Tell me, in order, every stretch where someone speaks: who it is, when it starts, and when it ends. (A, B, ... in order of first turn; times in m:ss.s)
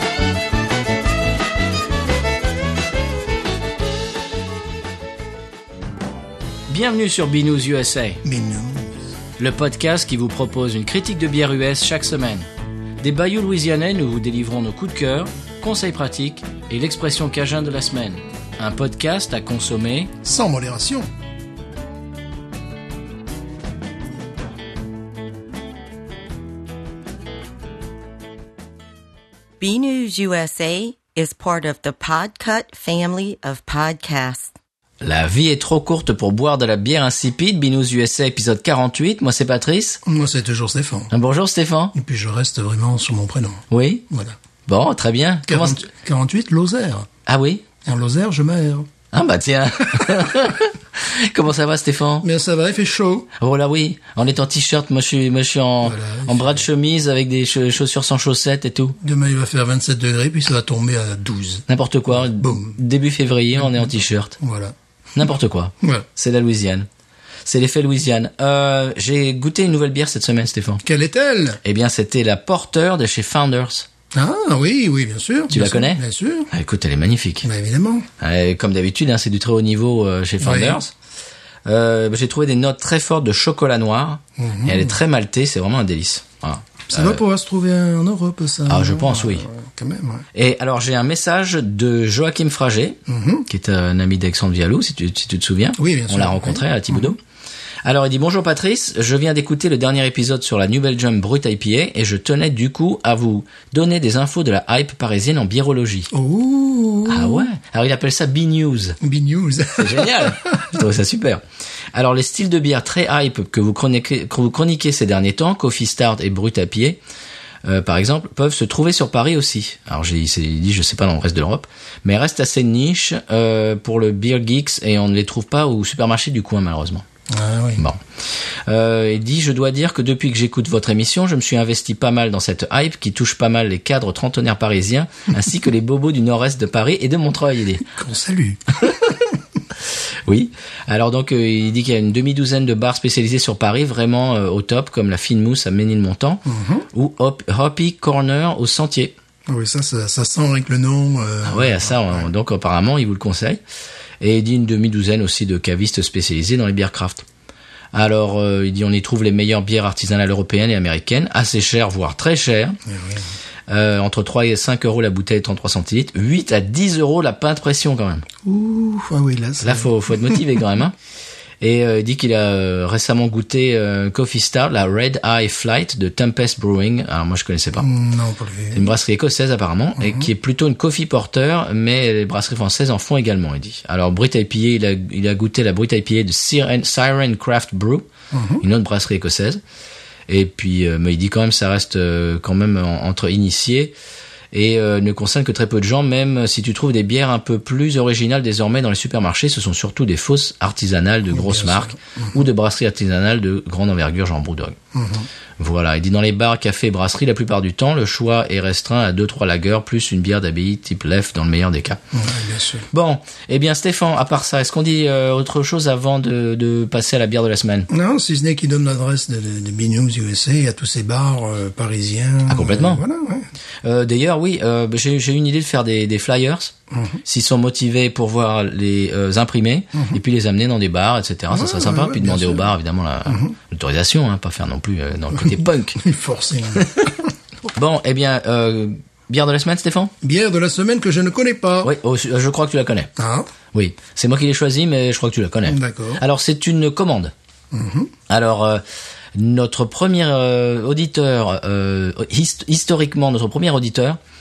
0:06.7-0:08.2 A
0:08.2-0:08.9 B
0:09.4-0:12.5 A
0:13.0-0:20.1 A
0:20.2-0:21.1 B
0:29.6-0:34.5 C
0:35.0-0:40.0 A
0:40.0-0:41.1 B
0:41.1-0:41.9 A
0:41.9-0:44.4 B
0:43.7-0:44.0 A
0:44.6-0:45.9 A
0:45.5-0:47.1 B
0:47.2-0:47.6 A
0:47.8-0:48.9 B
0:49.1-0:52.2 A
0:52.2-0:53.3 B
0:53.4-0:59.0 A
0:55.8-0:56.7 B
0:59.0-1:02.8 B
1:01.7-1:04.4 A
1:03.6-1:04.7 B
1:05.1-1:06.9 A
1:07.4-1:10.8 A
1:10.8-1:11.6 B
1:11.6-1:13.9 A
1:14.1-1:16.5 B
1:15.5-1:17.4 A
1:17.4-1:18.1 B
1:18.2-1:20.9 A
1:20.4-1:20.8 B
1:21.6-1:27.2 A
1:24.4-1:25.0 B
1:26.9-1:30.2 B
1:28.7-1:29.5 A
1:30.3-1:37.2 A
1:33.1-1:33.5 B
1:35.8-1:37.1 B
1:37.8-1:46.1 A
1:46.1-1:47.5 B
1:47.1-1:49.0 A
1:49.0-1:50.8 B
1:49.8-1:51.4 A
1:51.9-1:57.0 A
1:57.6-2:07.0 A
2:07.3-2:07.8 B
2:08.6-2:17.8 A
2:17.8-2:19.1 B
2:20.2-2:29.1 A
2:26.4-2:26.8 B
2:29.5-2:32.3 B
2:31.4-2:33.6 A
2:34.2-2:37.2 A
2:37.9-2:42.8 A
2:42.8-2:43.2 B
2:43.7-2:48.2 A
2:48.4-2:50.4 B
2:49.6-2:50.9 A
2:51.6-2:57.9 A
2:57.8-2:58.9 B
2:58.7-3:08.1 A
3:00.0-3:00.3 B
3:08.3-3:08.6 B
3:08.6-3:09.6 A
3:10.3-3:13.9 A
3:14.5-3:24.8 A
3:21.3-3:22.4 B
3:24.9-3:25.3 B
3:25.6-3:32.0 A
3:32.1-3:32.8 B
3:32.9-3:37.9 A
3:37.9-3:43.5 B
3:42.5-3:43.0 A
3:43.8-3:56.0 A
3:46.9-3:47.2 B
3:51.5-3:52.7 B
3:53.3-3:53.5 B
3:55.4-3:57.3 B
3:57.7-4:00.1 A
4:00.2-4:01.9 B
4:01.8-4:03.1 A
4:03.2-4:03.5 B
4:03.7-4:07.3 A
4:05.6-4:06.2 B
4:07.7-4:08.1 B
4:08.3-4:08.8 A
4:09.3-4:14.2 A